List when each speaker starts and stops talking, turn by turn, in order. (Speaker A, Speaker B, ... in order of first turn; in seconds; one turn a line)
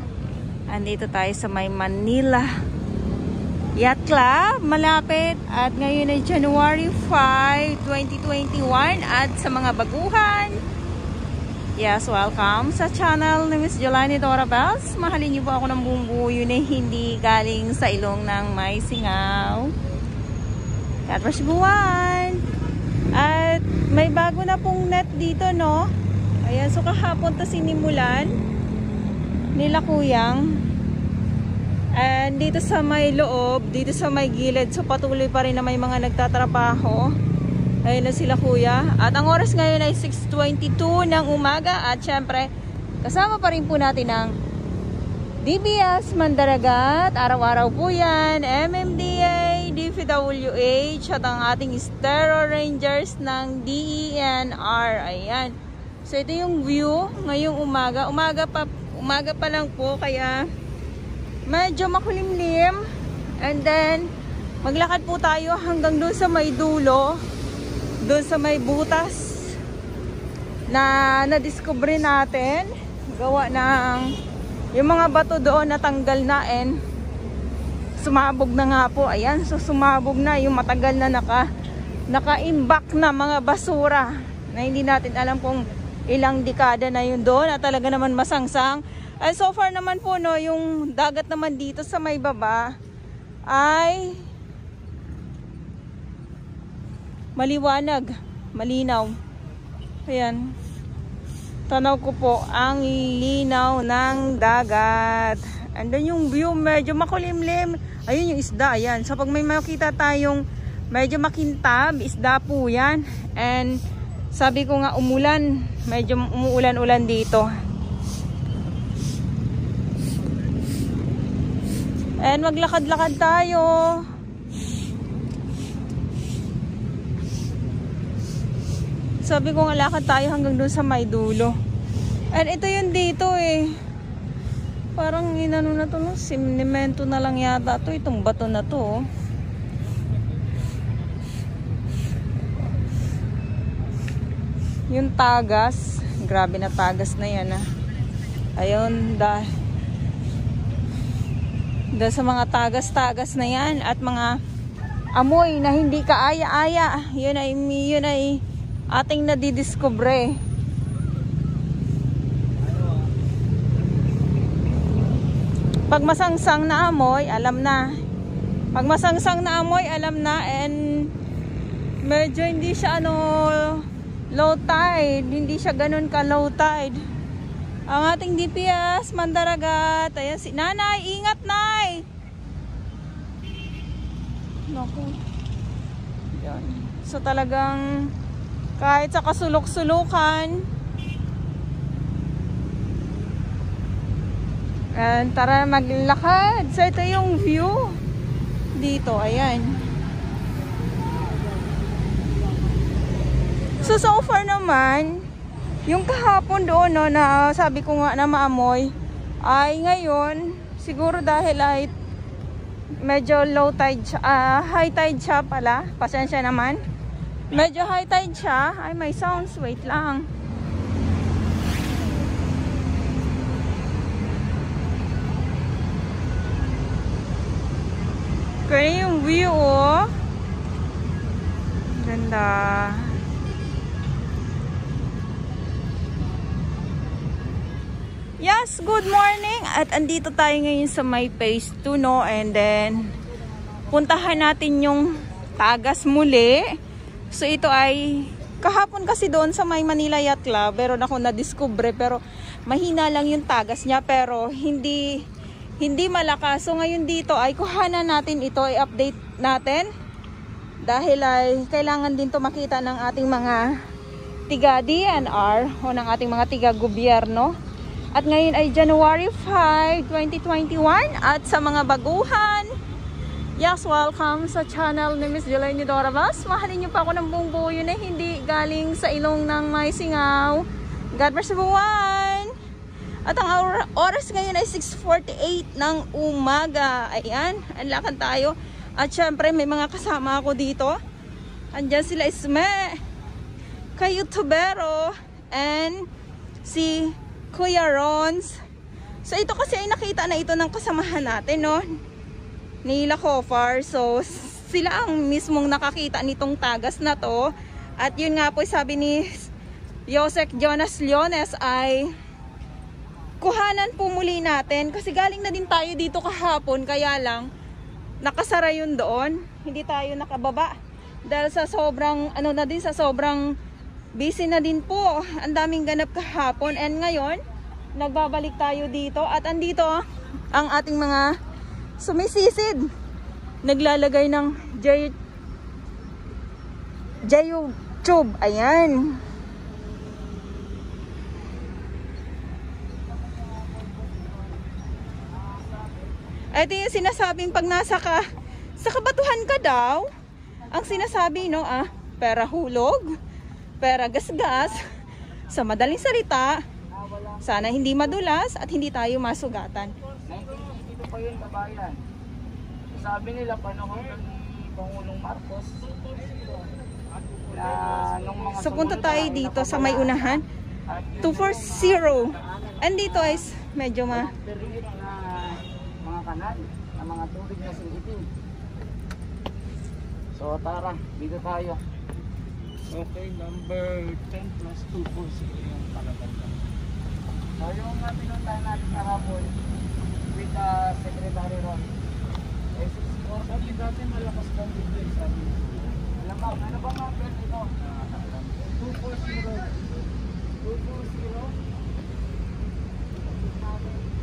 Speaker A: 0.7-2.5
Speaker A: 3.8-10.6
Speaker A: 11.8-19.7
Speaker A: 21.1-22.4
Speaker A: 23.1-25.9
Speaker A: 26.4-28.4
Speaker A: 29.6-30.4
Speaker A: 31.9-37.1
Speaker A: 37.9-42.5
Speaker A: 43.0-44.3
Speaker A: 45.4-55.5
Speaker A: 56.0-60.4
Speaker A: 61.5-62.8
Speaker A: 63.4-64.1
Speaker A: 64.6-67.2
Speaker A: 68.0-69.6
Speaker A: 70.7-74.1
Speaker A: 74.8-76.8
Speaker A: 78.0-81.5
Speaker A: 82.1-92.6
Speaker A: 93.5-94.2
Speaker A: 97.4-99.1
Speaker A: 100.1-100.5
Speaker A: 101.7-113.8
Speaker A: 114.3-117.5
Speaker A: 122.2-124.0
Speaker A: 129.2-131.5
Speaker A: 132.3-133.8
Speaker A: 135.0-139.1
Speaker A: 144.9-147.6
Speaker A: 148.6-149.5
Speaker A: 151.9-154.4
Speaker A: 155.2-158.4
Speaker A: 158.9-160.3
Speaker B: 162.6-163.1
Speaker A: 165.9-167.8
Speaker A: 168.8-171.1
Speaker A: 172.0-177.0
Speaker A: 177.9-182.1
Speaker A: 184.7-185.2
Speaker A: 186.3-188.1
Speaker A: 188.8-190.7
Speaker A: 194.9-197.8
Speaker A: 198.8-199.8
Speaker A: 203.8-205.2
Speaker A: 205.9-211.9
Speaker A: 213.0-216.8
Speaker A: 217.5-220.3
Speaker A: 228.7-230.1
Speaker A: 231.9-233.2
Speaker A: 238.4-243.1
Speaker A: 243.9-246.7
Speaker A: 247.3-255.1
Speaker A: 255.8-259.9
Speaker A: 260.9-263.6
Speaker A: 264.5-267.5
Speaker A: 268.1-272.7
Speaker A: 273.6-282.5
Speaker A: 283.2-290.9
Speaker A: 291.7-293.0
Speaker A: 294.0-296.1
Speaker A: 296.6-298.6
Speaker A: 299.2-301.9
Speaker A: 302.9-309.5
Speaker A: 310.1-312.1
Speaker A: 313.4-317.5
Speaker A: 318.2-320.8
Speaker A: 321.3-323.4
Speaker A: 324.2-327.4
Speaker A: 328.0-331.3
Speaker A: 332.0-332.9
Speaker A: 333.6-335.1
Speaker A: 337.3-339.2
Speaker C: 343.1-346.1
Speaker A: 346.5-348.3
Speaker A: 348.8-350.1
Speaker A: 350.7-353.1
Speaker A: 353.8-356.6
Speaker C: 356.9-358.2
Speaker A: 357.4-359.9
Speaker C: 360.3-362.0
Speaker C: 362.9-366.6
Speaker B: 367.1-368.9
Speaker C: 367.5-373.4
Speaker A: 368.5-370.4
Speaker A: 371.2-374.3
Speaker C: 374.1-378.2
Speaker C: 380.4-381.8
Speaker B: 382.9-386.6
Speaker C: 387.6-389.6
Speaker C: 390.3-391.9
Speaker C: 392.8-393.5
Speaker B: 393.4-396.0
Speaker C: 396.2-397.7
Speaker B: 397.8-399.8
Speaker C: 400.6-401.4
Speaker B: 400.9-401.4
Speaker C: 403.5-404.0